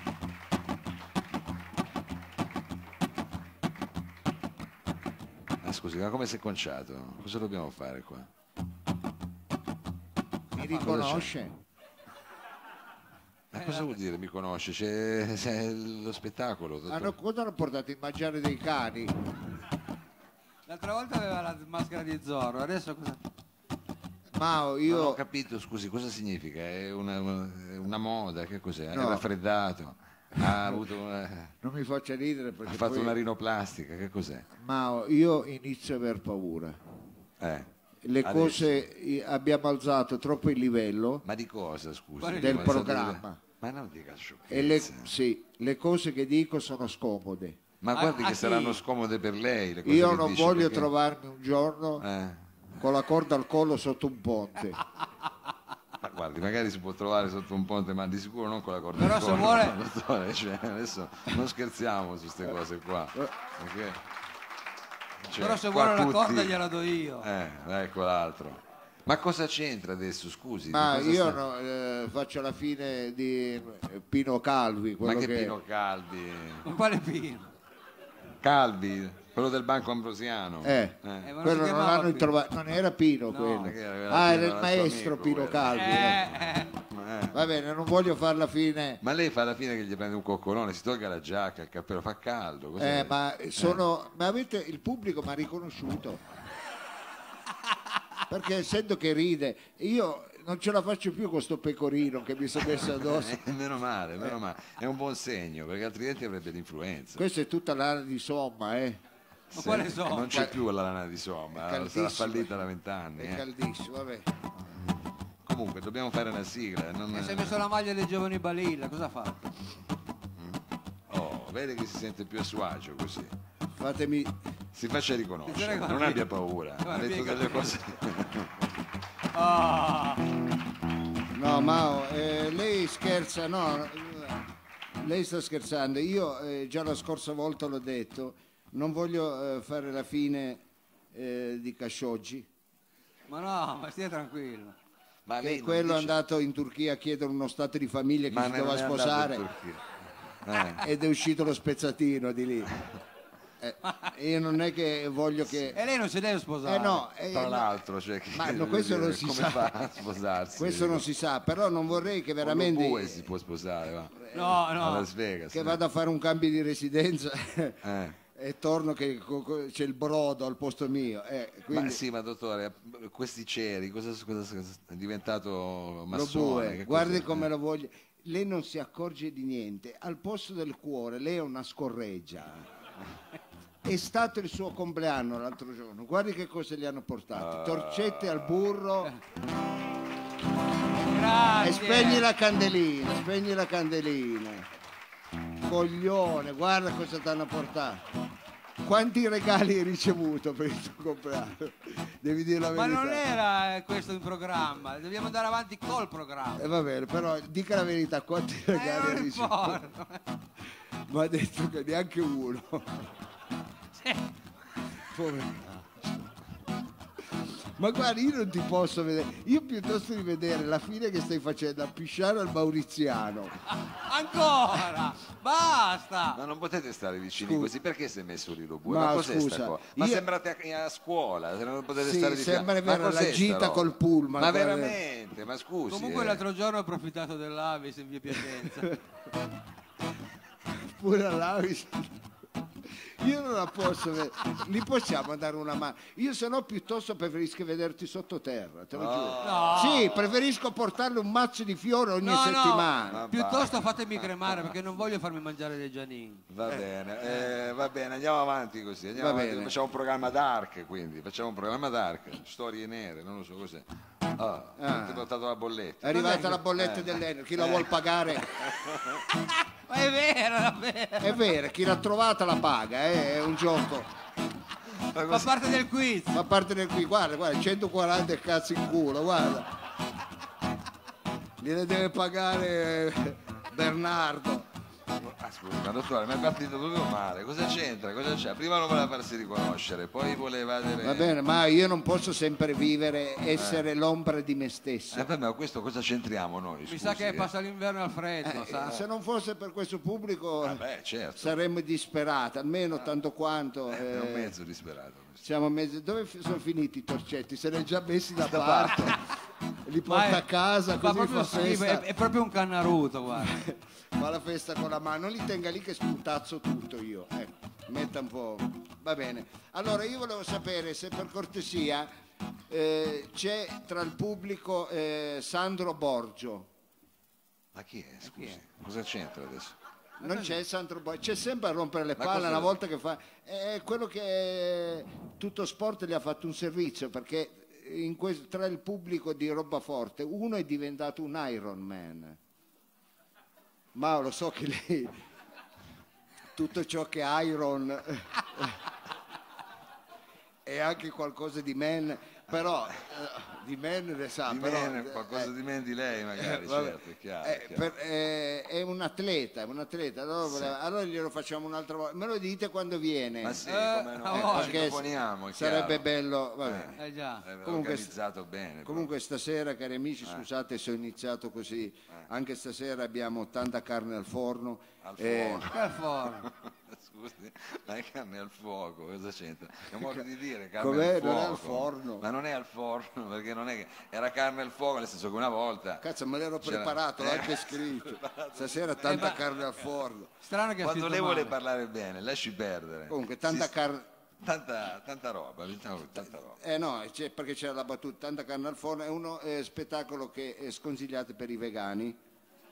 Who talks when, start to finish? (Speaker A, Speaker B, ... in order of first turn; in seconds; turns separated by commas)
Speaker A: 5.6-8.3, Speaker B: 10.5-11.5, Speaker A: 10.6-11.3, Speaker A: 13.5-17.1, Speaker B: 16.9-19.1, Speaker C: 20.7-23.2, Speaker B: 24.3-25.2, Speaker A: 24.8-31.5, Speaker B: 28.9-29.2, Speaker B: 30.4-30.8, Speaker B: 31.6-33.2, Speaker A: 32.6-34.5, Speaker B: 34.6-36.8, Speaker A: 37.4-37.7, Speaker B: 38.0-41.2, Speaker A: 38.2-38.8, Speaker A: 41.2-45.1, Speaker C: 42.2-42.9, Speaker B: 42.4-43.4, Speaker B: 44.5-47.6, Speaker A: 47.8-50.9, Speaker C: 47.9-48.8, Speaker B: 49.8-52.0, Speaker A: 52.0-52.8, Speaker B: 52.8-54.8, Speaker A: 56.0-64.0, Speaker C: 59.0-59.8, Speaker A: 65.2-66.6, Speaker C: 65.4-67.2, Speaker A: 67.2-71.4, Speaker B: 70.7-75.5, Speaker A: 75.0-76.7, Speaker C: 76.6-77.5, Speaker A: 78.4-81.3, Speaker B: 80.6-86.3, Speaker C: 81.2-82.3, Speaker C: 83.3-83.7, Speaker A: 83.6-87.4, Speaker C: 85.7-86.7, Speaker B: 87.3-89.0, Speaker A: 89.0-93.8, Speaker B: 92.8-96.2, Speaker B: 98.3-103.4, Speaker A: 102.9-107.2, Speaker B: 107.2-109.0, Speaker A: 109.5-113.4, Speaker C: 109.5-110.4, Speaker B: 110.3-110.5, Speaker B: 111.5-112.6, Speaker B: 113.2-114.3, Speaker A: 115.4-117.6, Speaker C: 117.1-119.5, Speaker A: 120.4-123.3, Speaker B: 123.7-124.3, Speaker A: 124.7-128.5, Speaker C: 125.5-126.3, Speaker C: 126.8-127.7, Speaker C: 129.3-130.3, Speaker B: 131.3-134.4, Speaker B: 135.0-140.6, Speaker B: 141.1-142.5, Speaker C: 143.3-144.8, Speaker A: 145.2-146.2, Speaker B: 145.4-149.4, Speaker A: 148.3-150.8, Speaker B: 150.8-152.7, Speaker B: 153.6-155.8, Speaker C: 155.7-157.0, Speaker B: 156.6-157.8, Speaker A: 157.3-161.0, Speaker B: 158.3-159.7, Speaker B: 160.6-163.3, Speaker A: 162.4-165.8, Speaker B: 164.3-164.6, Speaker C: 164.3-165.1, Speaker B: 165.5-172.0, Speaker A: 167.8-168.2, Speaker A: 171.7-177.5, Speaker B: 176.1-182.7, Speaker B: 183.8-189.1, Speaker A: 187.3-188.5, Speaker C: 191.1-192.3, Speaker B: 191.6-194.7, Speaker B: 195.6-198.0, Speaker B: 198.8-203.2, Speaker C: 202.7-206.7, Speaker B: 206.6-209.8, Speaker C: 208.7-210.2, Speaker B: 211.1-213.1, Speaker B: 215.0-216.1, Speaker B: 217.4-223.6, Speaker C: 223.7-226.4, Speaker A: 226.3-236.4, Speaker B: 227.4-227.7, Speaker B: 228.8-230.3, Speaker B: 232.0-235.0, Speaker C: 235.9-239.0, Speaker B: 240.6-242.2, Speaker B: 242.8-253.3, Speaker A: 248.9-250.1, Speaker C: 249.4-250.3, Speaker C: 252.2-256.4, Speaker A: 253.1-254.7, Speaker A: 256.5-267.8, Speaker B: 259.1-259.8, Speaker B: 264.8-265.3, Speaker B: 266.0-268.8, Speaker C: 266.1-266.6, Speaker A: 268.5-269.2, Speaker C: 269.7-271.4, Speaker B: 271.2-274.1, Speaker A: 275.0-275.7, Speaker C: 275.3-276.4, Speaker B: 276.3-279.7, Speaker B: 281.6-284.7, Speaker A: 285.1-291.4, Speaker B: 291.0-295.2, Speaker A: 293.5-293.8, Speaker A: 295.1-297.5, Speaker C: 296.9-299.0, Speaker B: 298.4-300.8, Speaker A: 300.6-301.6, Speaker B: 301.4-304.5, Speaker A: 303.9-305.4, Speaker B: 305.4-309.2, Speaker A: 308.5-309.1, Speaker B: 309.8-312.1, Speaker C: 310.1-313.6, Speaker B: 313.4-322.1, Speaker B: 322.7-326.7, Speaker A: 327.7-329.8, Speaker C: 328.2-328.6, Speaker B: 330.2-342.4, Speaker C: 330.2-330.5, Speaker A: 332.2-332.7, Speaker B: 343.9-345.1, Speaker B: 346.5-348.8, Speaker B: 350.6-355.5, Speaker A: 354.5-357.9, Speaker B: 356.3-363.6, Speaker A: 360.4-360.7, Speaker A: 363.4-366.0, Speaker C: 363.6-364.9, Speaker B: 364.3-367.0, Speaker A: 366.6-369.1, Speaker C: 367.0-367.4, Speaker B: 367.6-368.1, Speaker B: 368.8-375.7, Speaker A: 375.0-375.8, Speaker C: 375.7-376.5, Speaker A: 376.4-386.0, Speaker B: 380.8-382.2, Speaker B: 386.0-390.3, Speaker A: 386.6-389.5, Speaker C: 389.1-389.4, Speaker C: 390.4-391.5, Speaker A: 390.8-393.7, Speaker B: 393.1-394.1, Speaker A: 394.4-396.6, Speaker B: 396.6-402.2